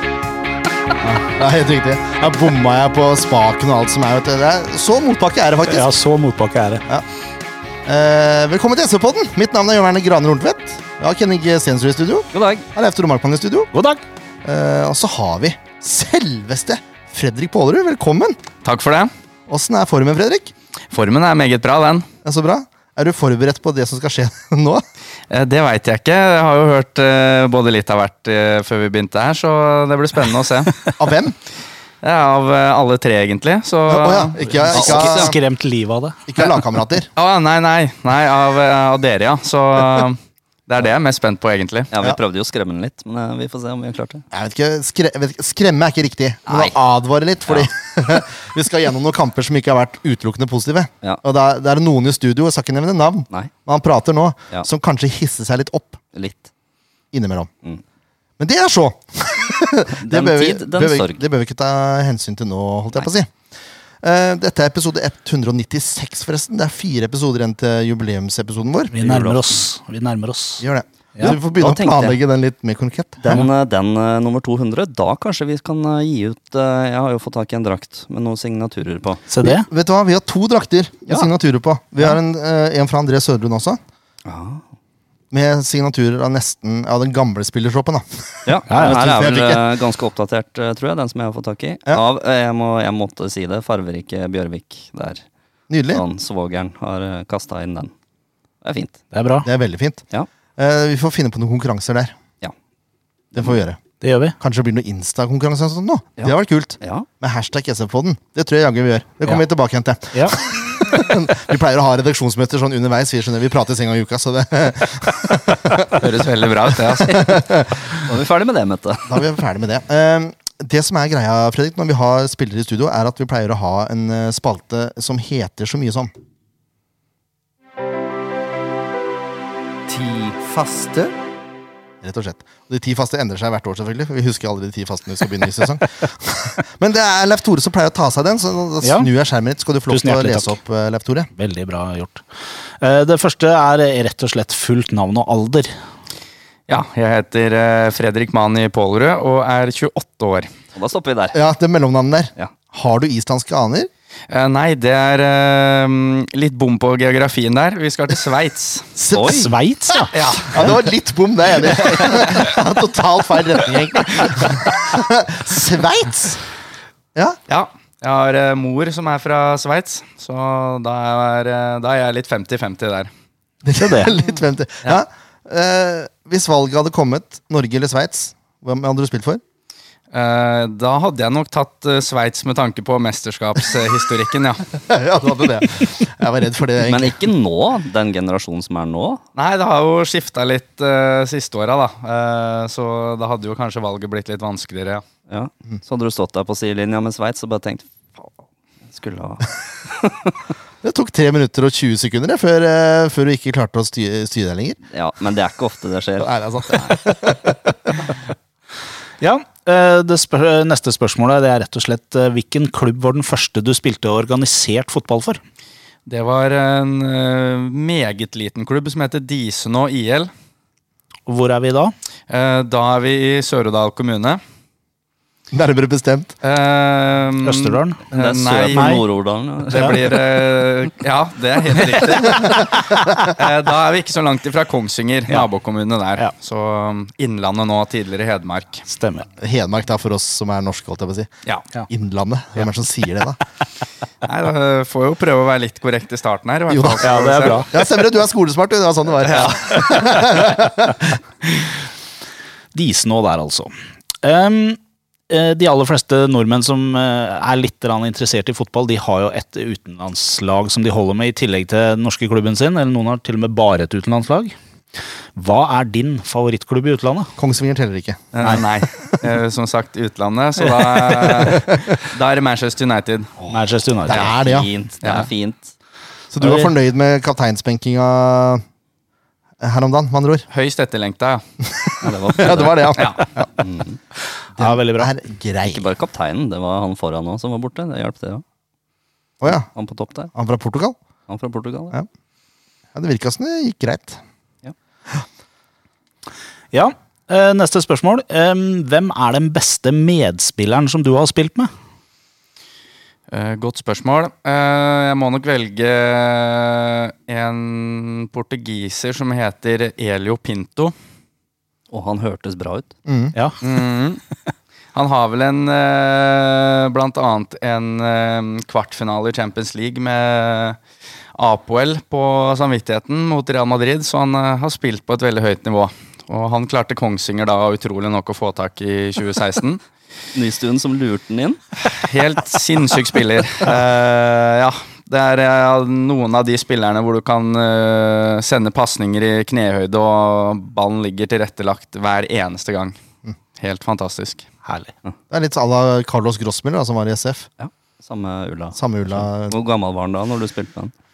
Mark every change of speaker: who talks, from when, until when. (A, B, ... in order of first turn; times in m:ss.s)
0:01.0-0:05.9 A
0:05.7-0:06.8 B
0:07.9-0:13.7 A
0:12.3-0:12.7 C
0:13.7-0:14.0 B
0:14.4-0:18.4 A
0:18.6-0:19.1 D
0:19.5-0:20.5 A
0:20.9-0:22.1 D
0:22.2-0:24.8 A
0:25.3-0:30.9 D
0:31.0-0:31.4 A
0:32.0-0:34.4 D
0:33.9-0:35.4 A
0:34.7-0:36.2 B
0:34.7-0:35.3 C
0:36.3-0:37.1 A
0:37.2-0:41.9 D
0:41.9-0:44.2 C
0:44.3-0:56.0 A
0:46.5-0:46.8 C
0:56.1-0:56.5 C
0:57.1-0:57.5 A
0:58.4-1:03.3 A
1:00.0-1:01.3 C
1:04.0-1:08.9 A
1:08.9-1:10.6 B
1:09.0-1:09.6 C
1:10.6-1:13.5 A
1:11.3-1:12.2 C
1:13.2-1:19.2 C
1:19.3-1:19.7 B
1:19.4-1:23.8 A
1:24.2-1:24.6 C
1:25.3-1:29.6 A
1:28.5-1:35.2 C
1:28.7-1:29.0 B
1:35.7-1:36.0 A
1:35.9-1:37.9 C
1:38.6-1:39.0 C
1:39.1-1:39.5 B
1:39.4-1:40.0 A
1:40.6-1:42.2 A
1:43.4-1:43.8 A
1:44.0-1:44.4 B
1:44.4-1:56.0 A
1:46.2-1:47.1 C
1:55.9-1:57.4 D
1:56.7-1:57.8 A
1:57.9-1:59.3 C
1:59.1-2:06.1 A
2:09.9-2:10.4 C
2:12.0-2:21.3 A
2:18.8-2:19.1 B
2:19.9-2:20.6 B
2:21.4-2:22.2 B
2:22.8-2:25.7 B
2:26.7-2:30.5 D
2:30.7-2:31.4 C
2:31.3-2:33.9 A
2:34.3-2:38.9 D
2:39.0-2:46.4 A
2:39.1-2:39.5 C
2:39.3-2:40.1 B
2:40.1-2:40.7 D
2:47.5-2:53.1 D
2:53.6-2:59.4 A
2:53.8-2:54.1 B
3:00.1-3:04.8 D
3:04.8-3:07.2 A
3:06.8-3:09.2 C
3:09.4-3:15.0 D
3:15.3-3:17.8 C
3:18.9-3:20.4 C
3:20.8-3:24.8 A
3:24.9-3:27.0 C
3:26.2-3:28.1 A
3:29.2-3:35.4 B
3:36.1-3:40.3 D
3:41.3-3:41.9 B
3:42.3-3:44.4 D
3:45.5-3:46.3 A
3:46.4-3:49.0 D
3:47.4-3:48.0 B
3:48.1-3:50.2 C
3:48.7-3:49.0 B
3:49.7-3:58.8 D
3:52.2-3:53.1 A
3:58.9-3:59.3 B
3:59.4-4:01.3 A
4:01.9-4:03.4 A
4:04.2-4:07.7 D
4:06.7-4:11.2 A
4:07.0-4:07.7 B
4:09.2-4:10.4 D
4:12.7-4:13.7 B
4:14.2-4:14.8 B
4:15.3-4:24.6 B
4:25.4-4:27.3 B
4:27.4-4:28.4 A
4:28.3-4:33.4 D
4:31.5-4:31.9 A
4:33.5-4:34.3 B
4:34.1-4:34.7 A
4:34.1-4:35.7 C
4:35.0-4:35.3 D
4:36.3-4:38.6 A
4:36.4-4:36.7 B
4:39.6-4:40.5 A
4:40.5-4:41.4 D
4:41.7-4:43.5 A
4:42.0-4:44.0 C
4:43.0-4:43.2 D
4:44.6-4:45.1 B
4:44.6-4:45.8 A
4:45.6-4:48.4 C
4:49.4-4:49.7 A
4:49.5-4:50.3 C
4:50.3-4:51.0 A
4:51.3-4:52.0 C
4:52.9-4:54.2 A
4:56.7-5:01.7 B
5:03.3-5:10.9 D
5:11.9-5:12.9 C
5:13.1-5:13.4 A
5:13.6-5:14.2 D
5:14.9-5:20.8 D
5:21.4-5:29.8 D
5:30.4-5:31.6 C
5:31.9-5:43.0 D
5:43.6-5:44.5 D
5:44.6-5:44.9 B
5:45.3-5:47.5 A
5:47.6-5:50.9 C
5:48.8-5:49.6 A